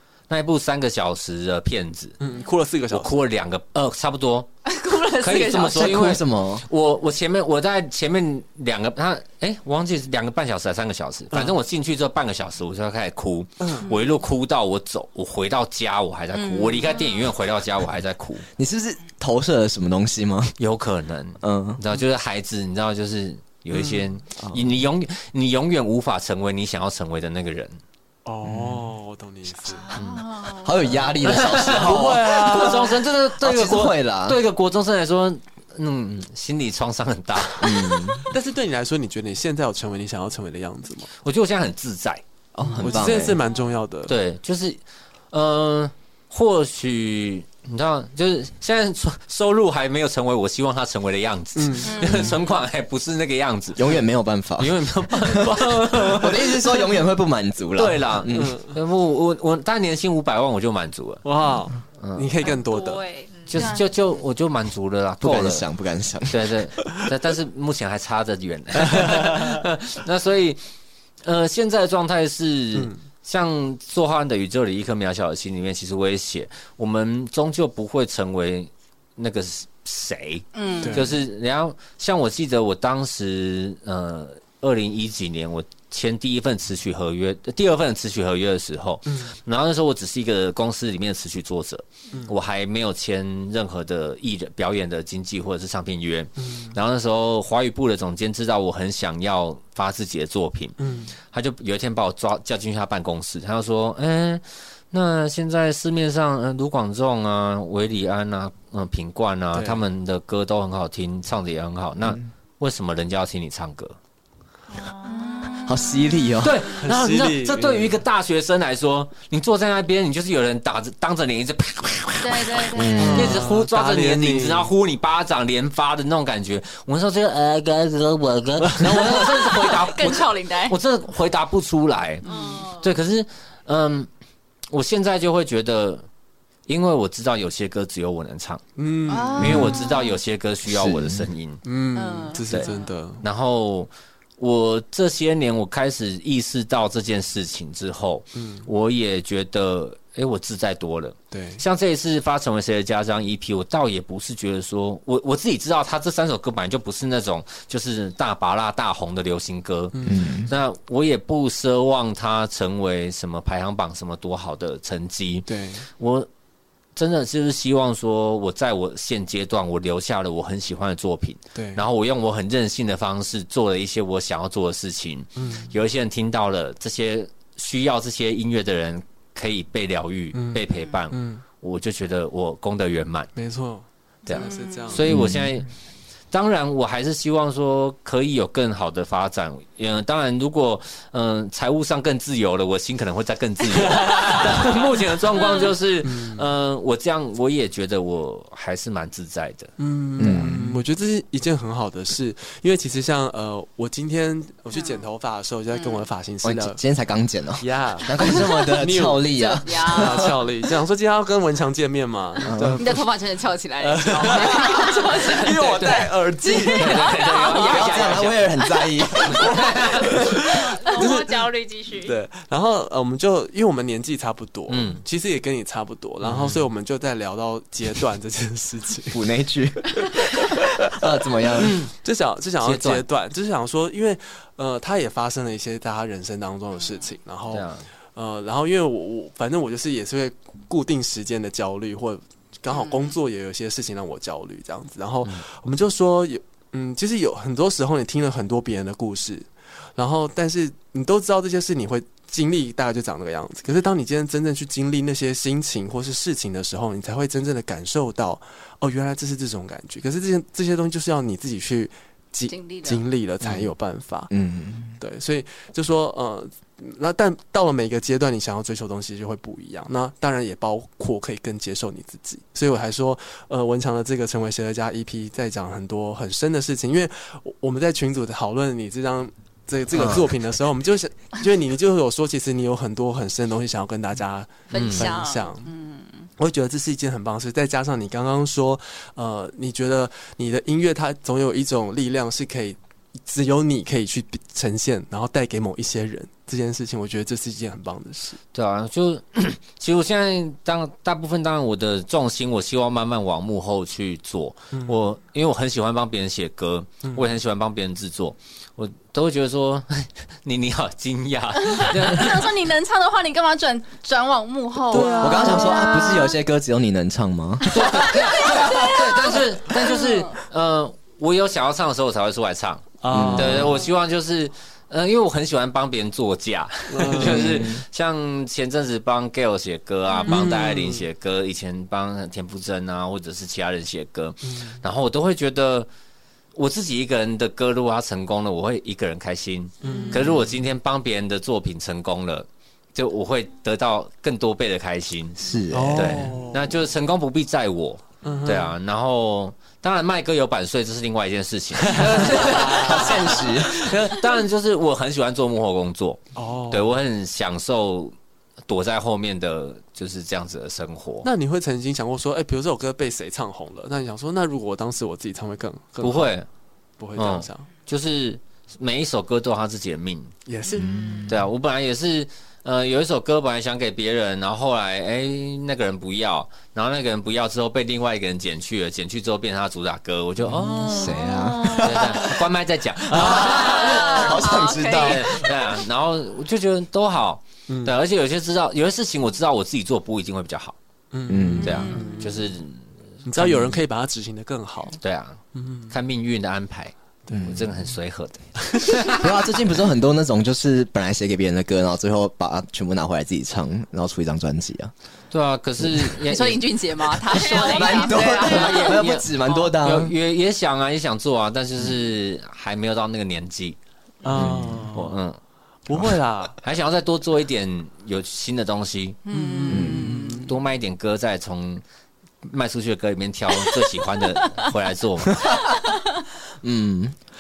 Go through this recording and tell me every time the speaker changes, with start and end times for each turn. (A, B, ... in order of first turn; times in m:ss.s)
0:00.3-0:02.2 A
0:02.2-0:03.1 B
0:02.9-0:04.5 A
0:04.7-0:06.0 C
0:05.1-0:18.4 A
0:05.7-0:06.7 D
0:13.6-0:13.9 B
0:16.3-0:17.0 C
0:18.6-0:20.6 D
0:20.6-0:27.8 A
0:21.4-0:21.8 D
0:23.7-0:24.0 B
0:24.4-0:24.7 D
0:28.2-0:29.9 B
0:28.4-0:28.8 D
0:29.7-0:31.0 C
0:30.0-0:30.2 A
0:30.5-0:34.4 D
0:31.2-0:38.2 A
0:31.6-0:33.0 B
0:37.6-0:38.2 D
0:38.3-0:41.1 B
0:41.2-0:42.2 A
0:42.6-0:43.4 D
0:42.8-0:44.1 B
0:44.1-0:44.8 A
0:45.3-0:54.0 A
0:51.6-0:52.4 B
0:51.8-0:52.5 C
0:53.8-0:54.8 D
0:54.6-0:56.8 A
0:55.3-0:58.6 D
0:57.8-1:01.2 A
0:58.4-0:58.6 B
1:01.2-1:03.0 B
1:02.0-1:02.3 A
1:02.4-1:03.7 E
1:03.5-1:05.6 A
1:03.5-1:03.8 C
1:05.2-1:06.6 D
1:06.3-1:10.6 A
1:11.2-1:54.0 A
1:20.5-1:21.1 C
1:20.8-1:21.1 B
1:29.1-1:29.3 B
1:36.4-1:36.8 B
1:40.8-1:41.1 B
1:49.5-1:49.8 B
1:54.7-1:56.1 E
1:55.6-1:56.7 D
1:56.4-2:14.1 A
1:56.8-1:58.0 B
2:02.2-2:03.4 C
2:02.7-2:03.5 D
2:03.0-2:04.7 B
2:09.1-2:10.8 C
2:12.2-2:12.6 C
2:12.2-2:12.9 E
2:14.7-2:16.1 A
2:16.7-2:18.6 A
2:18.8-2:19.8 B
2:19.1-2:19.8 C
2:19.4-2:21.6 A
2:19.4-2:19.7 D
2:19.6-2:20.2 E
2:20.7-2:21.3 D
2:21.6-2:23.2 B
2:21.9-2:22.9 C
2:23.2-2:45.5 A
2:28.4-2:28.7 B
2:31.3-2:31.6 B
2:39.9-2:40.4 B
2:40.1-2:40.5 D
2:45.5-2:45.9 B
2:46.0-2:46.3 A
2:47.0-3:03.3 A
2:51.6-2:51.8 B
2:55.4-2:55.7 B
3:00.3-3:01.4 B
3:03.4-3:05.1 B
3:04.3-3:05.7 A
3:04.3-3:05.0 C
3:05.1-3:05.5 D
3:06.3-3:20.5 A
3:14.0-3:14.7 B
3:16.0-3:16.4 B
3:19.8-3:26.8 B
3:20.2-3:20.8 D
3:24.7-3:25.0 C
3:25.7-3:26.1 C
3:26.4-3:30.3 D
3:27.6-3:33.0 B
3:29.4-3:30.3 C
3:32.5-3:32.8 D
3:32.8-3:38.2 C
3:33.8-3:37.2 B
3:35.6-3:36.1 A
3:36.7-3:38.5 A
3:37.6-3:39.6 D
3:39.2-3:40.2 A
3:39.4-3:41.5 B
3:40.5-3:42.2 E
3:42.0-3:49.2 B
3:44.7-3:45.0 A
3:49.1-3:51.7 D
3:50.0-3:50.7 B
3:51.6-4:24.3 B
3:51.6-3:51.9 A
3:52.6-3:53.0 A
3:57.5-3:57.9 A
4:02.7-4:03.1 C
4:22.5-4:23.0 C
4:23.4-4:23.7 D
4:24.3-4:25.0 D
4:25.0-4:45.7 B
4:40.0-4:40.3 A
4:44.7-4:46.3 C
4:44.7-4:45.1 A
4:46.4-4:58.4 B
4:58.5-5:12.5 A
5:11.8-5:16.4 C
5:14.9-5:16.1 B
5:14.9-5:18.8 D
5:17.7-5:35.9 A
5:18.4-5:19.0 C
5:20.0-5:20.2 C
5:23.0-5:23.8 B
5:23.1-5:23.7 D
5:26.9-5:27.6 B
5:27.2-5:27.8 D
5:30.1-5:30.4 E
5:30.3-5:31.0 B
5:34.4-5:34.8 B
5:36.6-5:58.1 A
5:39.8-5:40.5 B
5:39.8-5:40.3 C
5:45.4-5:46.4 D
5:45.7-5:46.7 B
5:48.2-5:48.8 B
5:51.9-5:53.4 B
5:52.1-5:53.8 D
5:56.4-5:56.9 B
5:58.7-6:01.3 A
6:01.2-6:06.4 B
6:06.0-6:06.5 A
6:07.0-6:07.7 B
6:07.2-6:10.3 A
6:10.5-6:11.2 B
6:10.8-6:11.3 E
6:11.2-6:21.2 A
6:20.6-6:22.4 D
6:21.1-6:21.8 E
6:21.8-6:30.8 A
6:23.1-6:25.5 D
6:23.1-6:23.4 B
6:23.4-6:25.4 C
6:27.7-6:28.0 B
6:31.1-6:32.4 B
6:31.3-6:31.9 D
6:31.6-6:32.3 C
6:31.6-6:33.8 A
6:33.2-6:35.0 B
6:35.0-6:39.3 A
6:35.5-6:35.9 B
6:37.3-6:37.6 B
6:37.3-6:37.6 D
6:38.7-6:39.0 B
6:39.0-6:44.9 D
6:45.3-6:46.7 A
6:45.8-6:46.2 D
6:46.3-6:49.7 C
6:47.3-6:48.4 E
6:47.6-6:50.1 D
6:48.4-6:53.8 A
6:54.2-6:55.2 B
6:54.3-6:54.9 D
6:54.4-6:55.4 A
6:55.9-6:56.6 B
6:56.6-6:59.2 A
6:59.3-7:00.5 C
6:59.3-7:00.5 B
6:59.7-7:00.2 D
7:00.4-7:01.8 A
7:02.4-7:05.6 A
7:05.5-7:05.7 D
7:06.6-7:07.2 D